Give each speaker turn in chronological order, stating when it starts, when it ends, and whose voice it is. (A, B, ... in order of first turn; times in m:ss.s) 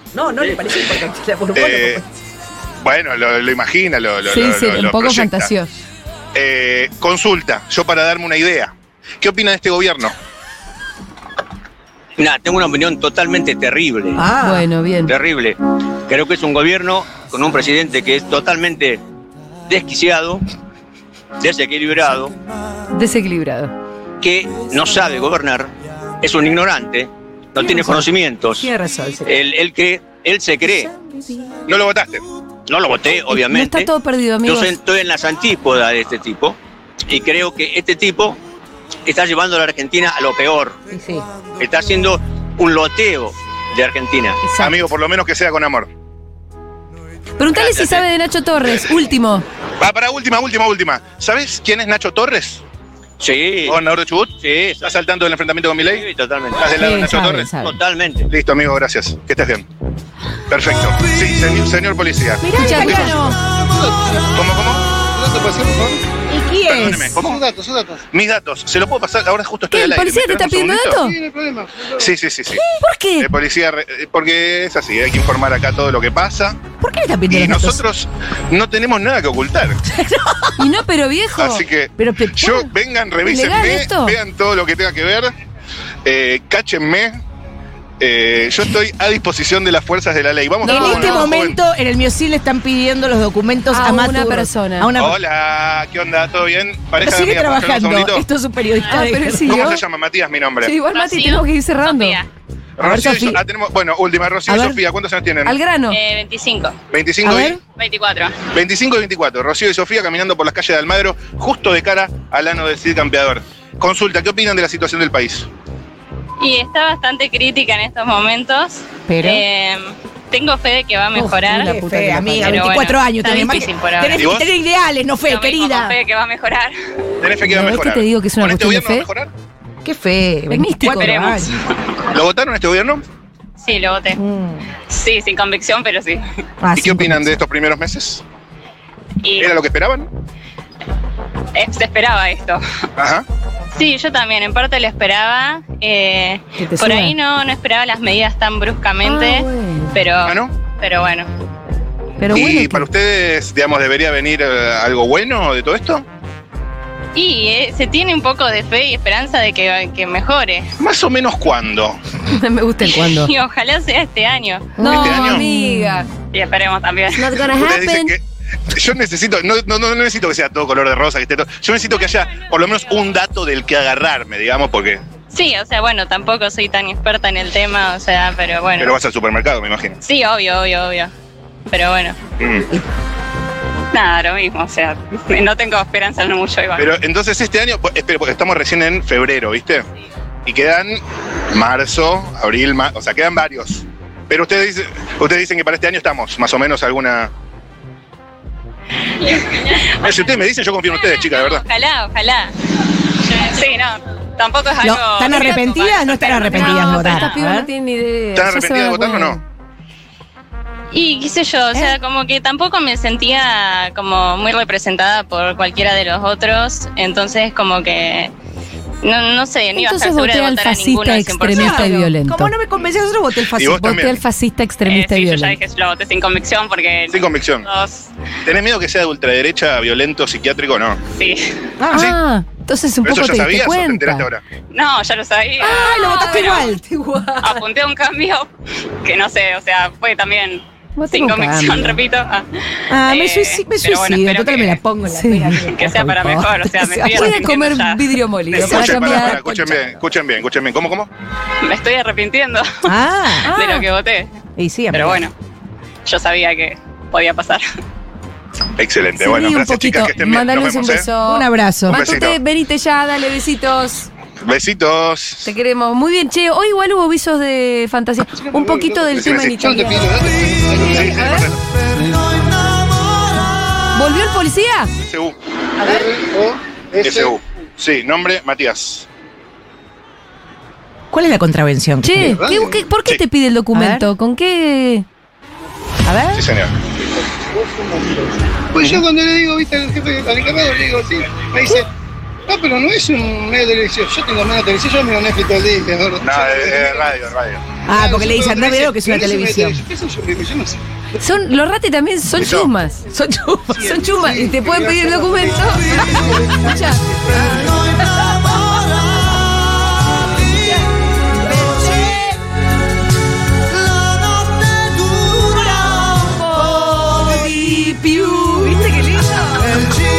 0:00.1-0:02.0 A
0:01.5-0:02.0 B
0:02.8-0:05.5 B
0:04.3-0:05.7 C
0:06.4-0:10.1 B
0:12.2-0:14.2 D
0:14.2-0:14.6 A
0:14.4-0:15.1 C
0:15.0-0:15.6 D
0:16.1-0:19.0 D
0:19.7-0:20.4 D
0:21.4-0:22.3 D
0:22.9-0:23.7 C
0:24.2-0:25.7 D
0:26.2-0:28.7 D
0:27.6-0:28.0 A
0:28.6-0:29.4 A
0:29.3-0:31.0 D
0:31.1-0:31.5 A
0:31.7-0:32.2 B
0:32.7-0:33.9 D
0:33.3-0:34.7 C
0:34.4-0:36.6 D
0:37.1-0:38.4 D
0:39.1-0:40.8 D
0:40.9-0:41.3 A
0:41.6-0:44.4 D
0:44.4-0:44.9 C
0:44.6-0:45.9 B
0:47.4-0:49.4 C
0:47.5-0:48.1 D
0:48.6-0:48.9 B
0:49.8-0:52.6 B
0:53.2-0:53.8 D
0:53.7-0:56.1 B
0:54.4-0:54.9 D
0:55.9-0:56.7 D
0:56.6-0:57.5 B
0:56.8-0:57.8 A
0:57.6-0:58.3 D
0:58.3-0:59.7 B
1:00.5-1:03.1 B
1:02.4-1:03.3 A
1:02.5-1:03.4 C
1:04.4-1:04.8 B
1:05.2-1:06.0 E
1:06.3-1:07.2 A
1:06.6-1:07.4 B
1:07.2-1:08.0 E
1:08.1-1:11.0 B
1:09.7-1:11.2 C
1:11.0-1:12.0 E
1:12.0-1:12.6 B
1:12.6-1:13.3 C
1:13.2-1:16.6 B
1:16.8-1:17.8 A
1:17.3-1:19.8 B
1:19.9-1:20.7 A
1:20.6-1:21.7 C
1:21.4-1:25.3 B
1:22.0-1:22.5 A
1:23.2-1:24.2 C
1:26.0-1:27.2 B
1:28.0-1:31.6 B
1:30.6-1:31.4 C
1:30.7-1:35.2 A
1:33.7-1:34.9 C
1:35.0-1:38.2 B
1:37.0-1:39.6 A
1:38.9-1:39.8 C
1:39.4-1:40.8 B
1:40.6-1:42.2 C
1:40.8-1:42.3 F
1:42.8-1:45.6 B
1:42.8-1:43.4 A
1:44.5-1:44.8 A
1:45.4-1:46.0 C
1:45.9-1:46.8 F
1:46.9-1:47.6 B
1:47.2-1:47.6 A
1:47.7-1:48.4 F
1:48.5-1:55.5 B
1:56.4-2:01.8 F
1:59.1-1:59.4 A
2:01.2-2:06.0 A
2:01.2-2:02.8 C
2:02.4-2:04.3 F
2:04.2-2:04.5 B
2:05.2-2:06.8 F
2:07.2-2:09.3 B
2:07.5-2:09.1 C
2:09.8-2:11.5 A
2:10.5-2:11.2 C
2:10.9-2:11.9 F
2:12.1-2:13.0 B
2:13.6-2:14.2 F
2:14.1-2:14.7 A
2:14.9-2:16.2 F
2:16.6-2:17.4 A
2:16.7-2:18.2 B
2:19.2-2:19.6 F
2:19.4-2:20.1 B
2:21.6-2:22.6 F
2:23.0-2:23.2 B
2:23.8-2:31.3 F
2:26.6-2:27.2 C
2:29.0-2:30.0 C
2:30.3-2:30.5 B
2:32.2-2:32.9 C
2:32.3-2:36.0 B
2:37.2-2:40.7 F
2:40.8-2:42.0 B
2:42.3-2:43.3 C
2:42.8-2:45.3 F
2:44.8-2:46.1 C
2:44.8-2:45.5 B
2:46.3-2:47.3 F
2:47.2-2:48.1 C
2:47.5-2:55.0 B
2:52.7-2:53.1 F
2:55.3-2:58.9 F
2:58.8-3:00.0 B
3:00.0-3:01.1 F
3:01.7-3:02.2 F
3:02.4-3:02.7 B
3:03.9-3:06.9 F
3:06.8-3:09.8 B
3:10.5-3:11.0 B
3:11.5-3:17.3 B
3:19.2-3:20.2 F
3:20.0-3:21.6 B
3:20.8-3:22.5 F
3:23.2-3:27.5 F
3:24.8-3:27.7 A
3:26.4-3:29.4 C
3:28.4-3:29.4 B
3:30.9-3:38.3 F
3:39.0-3:41.9 F
3:39.8-3:42.5 C
3:41.7-3:43.7 A
3:43.6-3:44.2 B
3:43.7-3:45.6 C
3:44.8-3:48.1 F
3:47.1-3:47.7 B
3:48.4-3:51.0 B
3:51.2-3:51.4 F
3:51.9-3:54.3 C
3:51.9-3:52.2 B
3:53.0-3:54.4 B
3:54.7-3:56.8 F
3:55.6-3:57.7 A
3:56.0-3:56.5 C
3:57.4-3:58.5 F
3:59.0-4:04.8 F
4:01.0-4:02.0 C
4:02.9-4:07.3 A
4:05.1-4:05.6 C
4:05.6-4:09.0 F
4:07.1-4:09.8 C
4:08.5-4:11.1 B
4:11.6-4:12.9 F
4:12.9-4:13.5 A
4:13.4-4:13.9 C
4:13.5-4:14.3 F
4:14.6-4:15.3 A
4:14.9-4:15.3 F
4:16.1-4:17.6 F
4:18.8-4:21.2 B
4:19.2-4:24.1 C
4:21.3-4:22.0 A
4:21.9-4:22.4 B
4:24.4-4:25.5 B
4:25.4-4:31.5 C
4:28.5-4:31.0 E
4:29.1-4:29.6 B
4:30.8-4:31.6 B
4:33.9-4:34.9 C
4:35.0-4:35.4 B
4:35.8-4:37.4 E
4:37.0-4:39.1 B
4:41.1-4:42.4 A
4:42.0-4:45.0 C
4:42.2-4:42.8 E
4:43.7-4:44.1 A
4:46.1-4:46.4 A
4:46.3-4:46.7 B
4:47.9-4:48.1 E
4:48.8-4:51.9 E
4:48.8-4:49.0 B
4:52.5-4:57.0 E
4:56.2-4:57.6 B
4:57.9-4:59.8 A
4:57.9-5:00.8 E
5:01.2-5:03.0 C
5:02.4-5:02.7 B
5:03.1-5:03.8 A
5:03.7-5:06.6 E
5:03.8-5:07.7 C
5:11.6-5:12.3 A
5:16.3-5:20.0 C
5:16.8-5:17.5 A
5:18.3-5:19.6 A